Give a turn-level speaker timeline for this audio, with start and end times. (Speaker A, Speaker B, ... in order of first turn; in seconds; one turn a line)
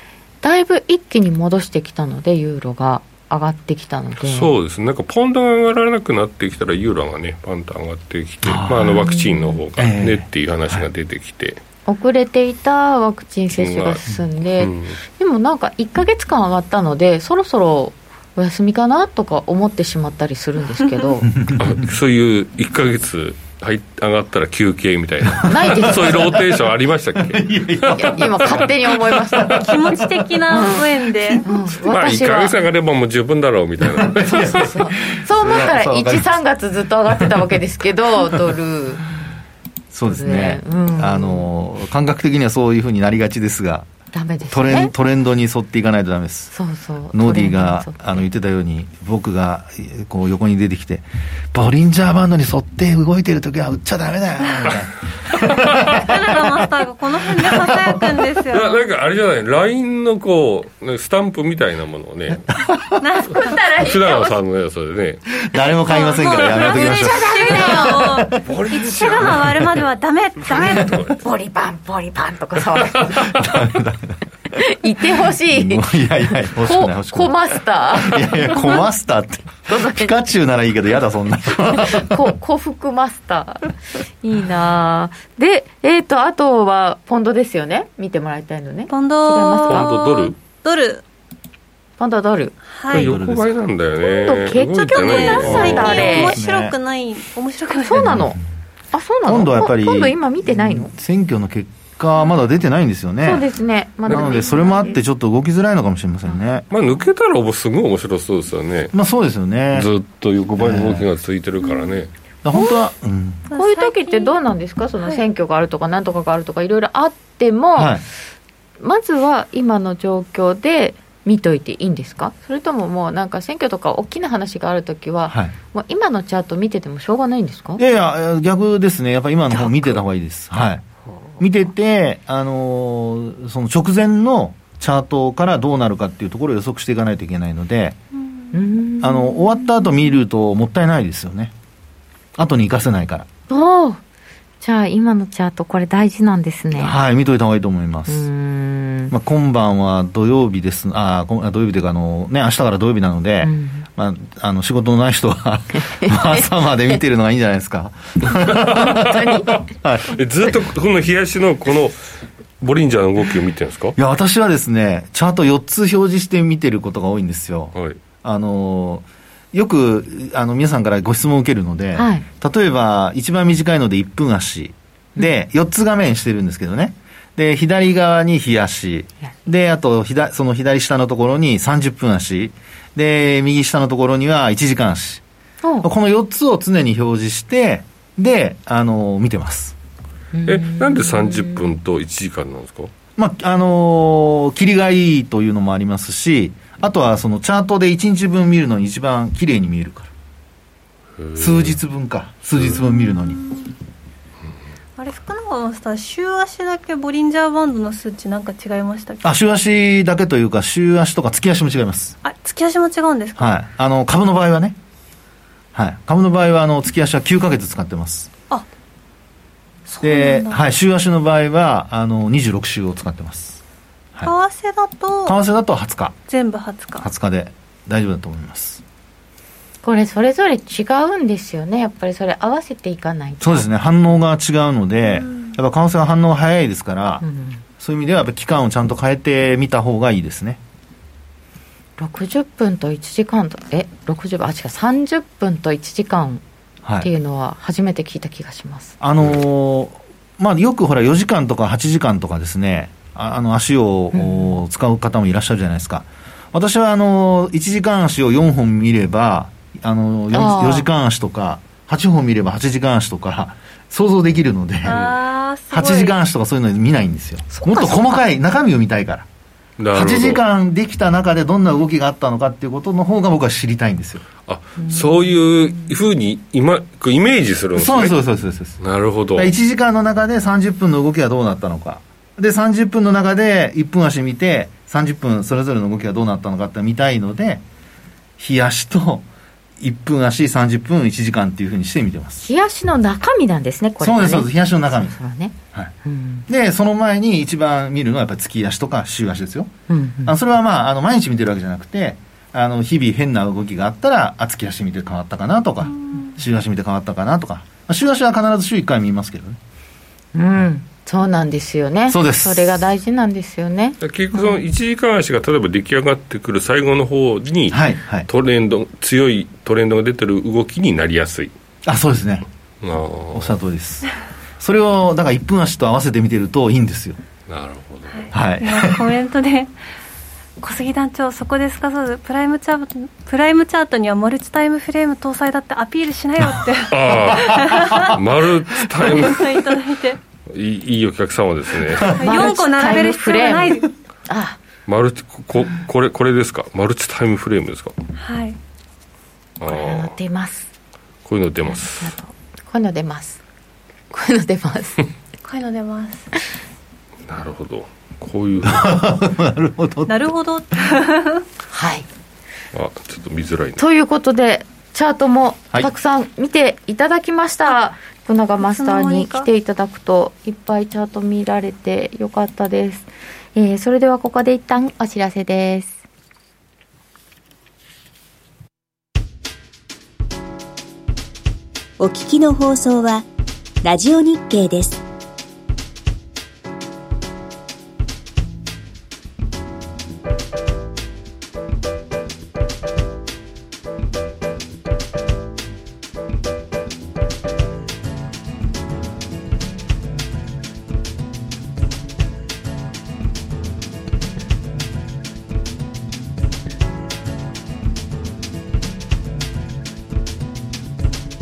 Speaker A: 0.4-4.5
Speaker B: 4.2-11.6
Speaker C: 8.4-9.1
Speaker A: 9.0-9.6
Speaker C: 9.8-10.9
Speaker A: 11.9-21.3
Speaker B: 13.5-15.0
Speaker C: 21.3-21.9
Speaker B: 21.5-29.1
Speaker C: 25.3-26.7
Speaker A: 25.4-26.3
Speaker C: 27.2-31.4
Speaker A: 27.9-29.7
Speaker D: 29.5-31.4
Speaker A: 30.5-30.9
Speaker A: 31.4-32.5
Speaker B: 31.7-34.7
Speaker C: 33.8-36.3
Speaker A: 34.3-39.2
Speaker C: 39.9-43.9
Speaker A: 40.0-41.5
Speaker A: 44.1-44.9
Speaker C: 44.5-46.5
Speaker A: 46.5-48.0
Speaker C: 47.1-56.6
Speaker D: 55.7-58.9
Speaker C: 57.4-58.0
Speaker B: 58.5-62.5
Speaker C: 62.5-63.0
Speaker D: 63.0-63.6
Speaker A: 63.3-64.4
Speaker B: 63.6-65.2
Speaker C: 65.3-69.7
Speaker D: 65.9-71.1
Speaker A: 66.2-68.3
Speaker B: 68.4-69.8
Speaker C: 70.5-71.0
Speaker B: 70.5-71.1
Speaker A: 71.2-73.2
Speaker B: 72.9-73.4
Speaker C: 73.0-74.2
Speaker A: 74.5-78.9
Speaker C: 75.5-82.3
Speaker A: 79.7-80.2
Speaker A: 81.7-89.9
Speaker D: 88.9-91.0
Speaker B: 89.6-90.3
Speaker A: 92.0-92.5
Speaker D: 92.7-93.2
Speaker B: 92.9-96.2
Speaker C: 92.9-93.5
Speaker A: 94.0-96.4
Speaker D: 94.8-98.2
Speaker C: 95.4-96.8
Speaker A: 97.9-98.4
Speaker C: 97.9-98.4
Speaker A: 98.9-100.9
Speaker C: 99.2-103.4
Speaker A: 103.2-105.0
Speaker C: 104.1-106.6
Speaker D: 104.1-104.8
Speaker B: 106.7-108.9
Speaker C: 108.9-109.9
Speaker B: 109.7-112.1
Speaker C: 110.6-111.0
Speaker D: 111.6-111.9
Speaker C: 112.4-113.4
Speaker A: 112.5-112.8
Speaker D: 113.5-114.3
Speaker A: 113.5-118.0
Speaker C: 117.8-118.0
Speaker A: 118.8-127.8
Speaker C: 127.8-130.8
Speaker C: 131.4-137.9
Speaker D: 138.2-138.5
Speaker A: 138.5-139.7
Speaker C: 139.0-141.5
Speaker C: 142.3-143.3
Speaker A: 143.5-144.0
Speaker A: 144.6-147.0
Speaker C: 146.7-148.3
Speaker A: 148.1-149.1
Speaker C: 149.1-160.2
Speaker A: 153.4-153.8
Speaker A: 155.8-156.4
Speaker A: 158.3-159.6
Speaker B: 158.4-159.0
Speaker B: 160.1-162.0
Speaker B: 162.6-163.9
Speaker C: 164.0-185.2
Speaker A: 171.9-172.2
Speaker A: 185.6-185.9
Speaker C: 185.8-189.7
Speaker A: 190.3-191.6
Speaker B: 190.4-192.9
Speaker C: 193.2-200.1
Speaker B: 201.2-201.8
Speaker C: 201.4-203.4
Speaker B: 202.5-202.8
Speaker D: 202.8-203.7
Speaker D: 205.0-209.3
Speaker C: 209.2-212.2
Speaker D: 212.2-213.6
Speaker C: 213.4-214.8
Speaker C: 215.7-218.3
Speaker D: 219.9-220.6
Speaker C: 220.0-223.6
Speaker D: 224.2-225.4
Speaker C: 225.2-226.1
Speaker D: 226.3-227.1
Speaker C: 227.0-228.8
Speaker A: 229.8-233.7
Speaker C: 233.4-237.2
Speaker D: 235.1-235.6
Speaker A: 237.2-237.6
Speaker C: 237.8-240.6
Speaker A: 242.0-246.4
Speaker C: 246.8-247.1
Speaker A: 247.0-248.9
Speaker C: 249.0-265.0
Speaker A: 254.1-254.6
Speaker A: 260.3-260.9
Speaker D: 264.8-266.1
Speaker B: 264.8-265.2
Speaker C: 265.7-269.3
Speaker A: 267.5-268.2
Speaker B: 269.8-270.4
Speaker C: 269.9-274.2
Speaker B: 274.5-278.1
Speaker C: 277.7-278.8
Speaker B: 278.8-279.5
Speaker C: 279.4-287.6
Speaker C: 288.4-289.2
Speaker C: 289.8-292.5
Speaker A: 292.5-296.5
Speaker C: 294.0-295.1
Speaker C: 296.5-299.7
Speaker A: 299.9-300.3
Speaker C: 300.2-309.6
Speaker D: 306.0-306.3
Speaker A: 310.3-314.6
Speaker C: 312.1-312.9
Speaker B: 314.0-321.5
Speaker C: 317.7-318.3
Speaker C: 321.8-322.4
Speaker B: 322.8-323.6
Speaker C: 323.3-327.2
Speaker B: 327.5-328.3
Speaker D: 328.1-329.7
Speaker C: 328.3-329.1
Speaker D: 330.6-338.2
Speaker B: 336.9-339.8
Speaker C: 337.3-338.2
Speaker D: 338.9-340.2
Speaker B: 340.5-342.4
Speaker C: 341.9-342.4
Speaker D: 342.0-343.9
Speaker A: 342.2-344.6
Speaker B: 344.9-347.9
Speaker D: 348.1-348.6
Speaker B: 349.6-350.1
Speaker A: 349.6-350.7
Speaker B: 351.2-352.1
Speaker A: 352.0-353.4
Speaker A: 354.1-355.1
Speaker D: 355.4-356.3
Speaker B: 357.3-359.0
Speaker C: 358.6-360.9
Speaker D: 360.1-361.4
Speaker A: 361.7-362.1
Speaker B: 362.7-363.8
Speaker A: 363.8-376.0
Speaker D: 368.6-369.5
Speaker E: 382.0-383.3
Speaker E: 383.8-385.0